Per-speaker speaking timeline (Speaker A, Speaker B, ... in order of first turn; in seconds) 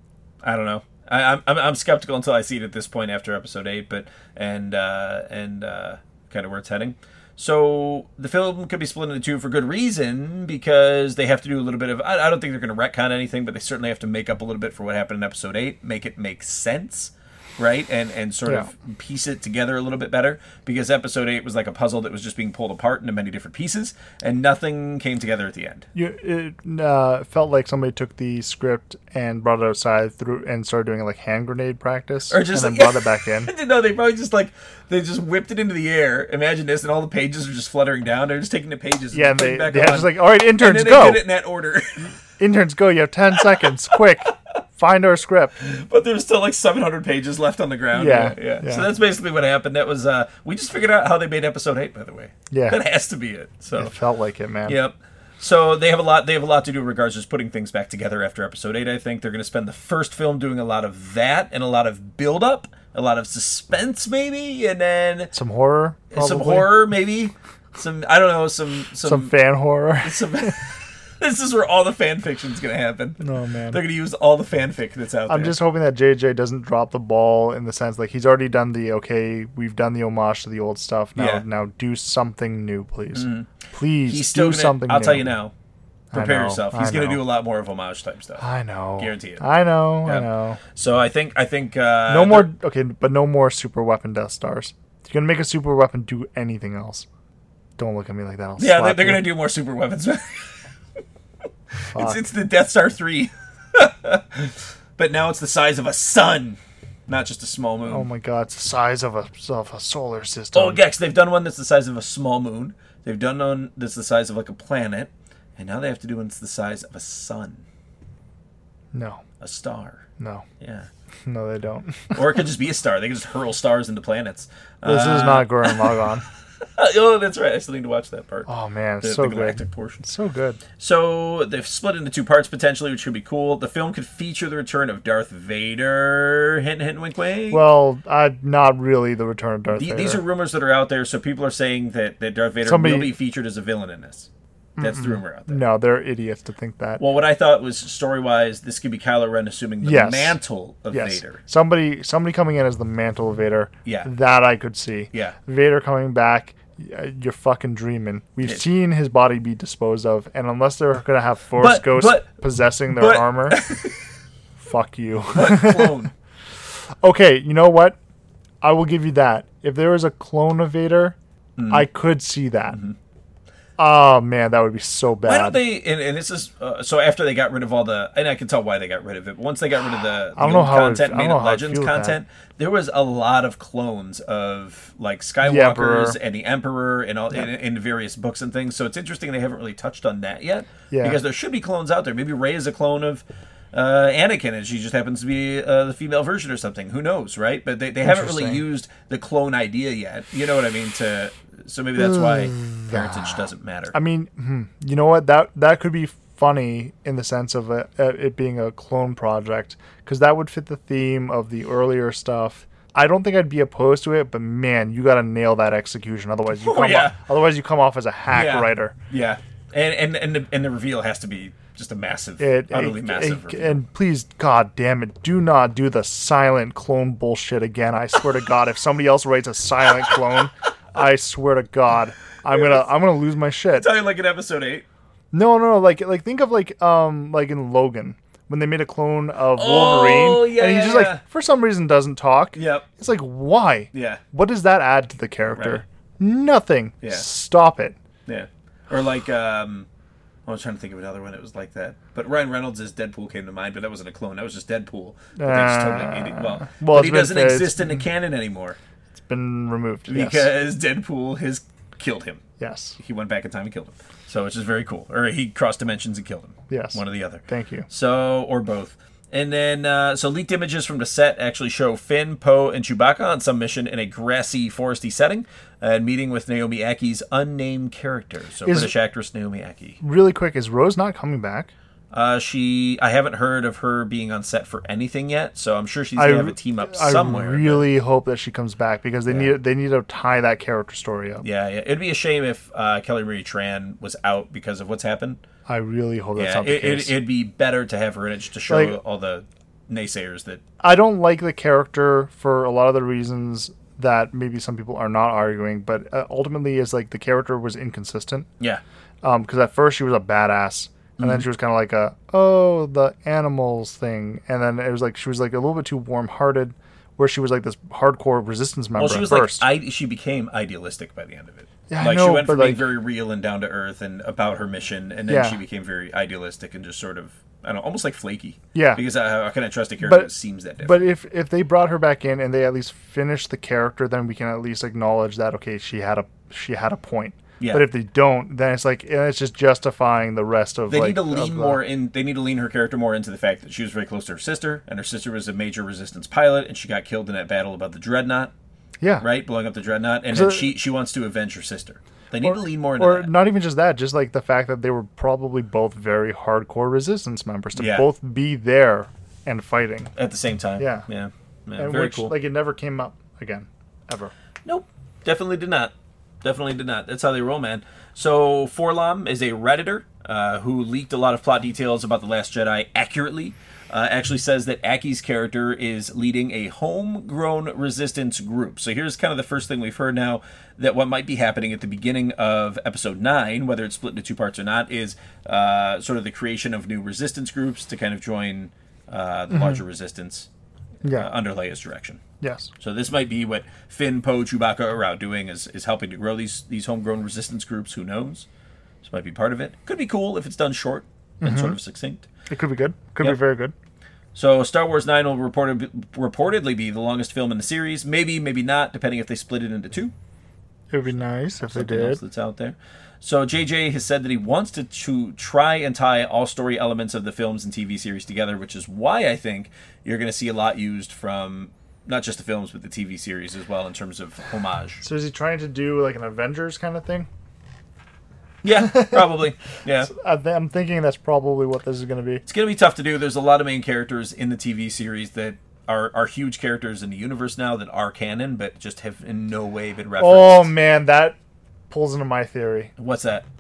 Speaker A: 0.4-25.9, 32.3-42.2, 43.4-44.0, 45.6-53.9, 54.7-65.3, 66.1-69.3, 70.0-75.6, 81.2-81.4, 83.2-83.5, 84.1-85.5, 86.1-88.4, 89.0-89.4, 90.0-92.5, 98.6-100.7, 101.9-108.1, 110.5-117.6, 119.4-120.1, 120.6-120.9, 122.1-126.1, 126.6-128.5, 129.0-130.0, 130.8-137.6, 139.7-144.3, 144.8-145.6, 147.0-151.4, 161.6-162.3, 162.9-164.1, 165.3-166.1, 171.6-171.8, 175.2-203.9, 216.6-217.2, 218.3-223.8, 232.5-232.9, 233.7-234.8, 239.6-241.2, 242.6-242.9, 243.9-244.2, 245.6-245.8, 248.3-249.9, 250.5-258.8, 260.1-262.4, 263.0-280.0, 282.1-287.9, 289.3-289.6, 291.4-295.4, 296.4-300.6, 311.2-311.4, 319.0-331.0, 337.6-337.9, 340.9-348.5, 349.2-353.3, 357.7-358.1, 360.2-362.3, 364.6-390.5, 391.1-392.2, 392.8-398.5, 399.0-402.3, 404.4-410.1, 411.6-425.0, 428.6-430.1, 432.5-440.7, 443.0-443.5
Speaker B: 25.9-33.5, 39.1-41.2, 42.4-45.8, 47.9-48.9, 52.5-52.8, 53.8-54.8, 65.3-66.8, 69.0-70.6, 73.2-73.8, 75.3-85.3, 86.1-87.2, 88.4-90.6, 92.1-97.1, 97.8-99.3, 101.9-102.2, 107.9-110.8, 118.9-119.2, 120.2-120.5, 121.3-122.2, 124.8-126.2, 128.5-130.6, 137.5-140.2, 142.6-143.1, 144.8-147.0, 149.8-150.4, 150.9-163.6, 164.6-166.1, 167.0-168.0, 168.6-171.2, 171.7-172.8, 173.8-175.6, 180.4-182.2, 185.4-186.2, 190.9-191.2, 198.0-198.6, 202.0-218.9, 222.4-233.9, 235.3-248.0, 255.4-258.0, 259.1-260.5, 262.6-263.0, 266.7-267.9, 278.6-278.9, 280.0-281.7, 286.2-291.4, 295.7-297.2, 298.7-299.0, 300.8-308.5, 309.2-319.7, 321.9-322.9, 325.3-325.6, 328.7-329.0, 330.0-330.3, 330.8-341.8, 349.0-349.3, 350.3-350.7, 352.4-360.1, 360.8-361.1, 361.8-364.3, 389.5-389.8, 391.0-391.3, 392.4-392.7, 401.4-401.8, 402.5-403.8, 410.9-412.2, 425.0-427.3, 428.7-429.4, 430.0-432.4, 440.2-441.4, 441.9-442.9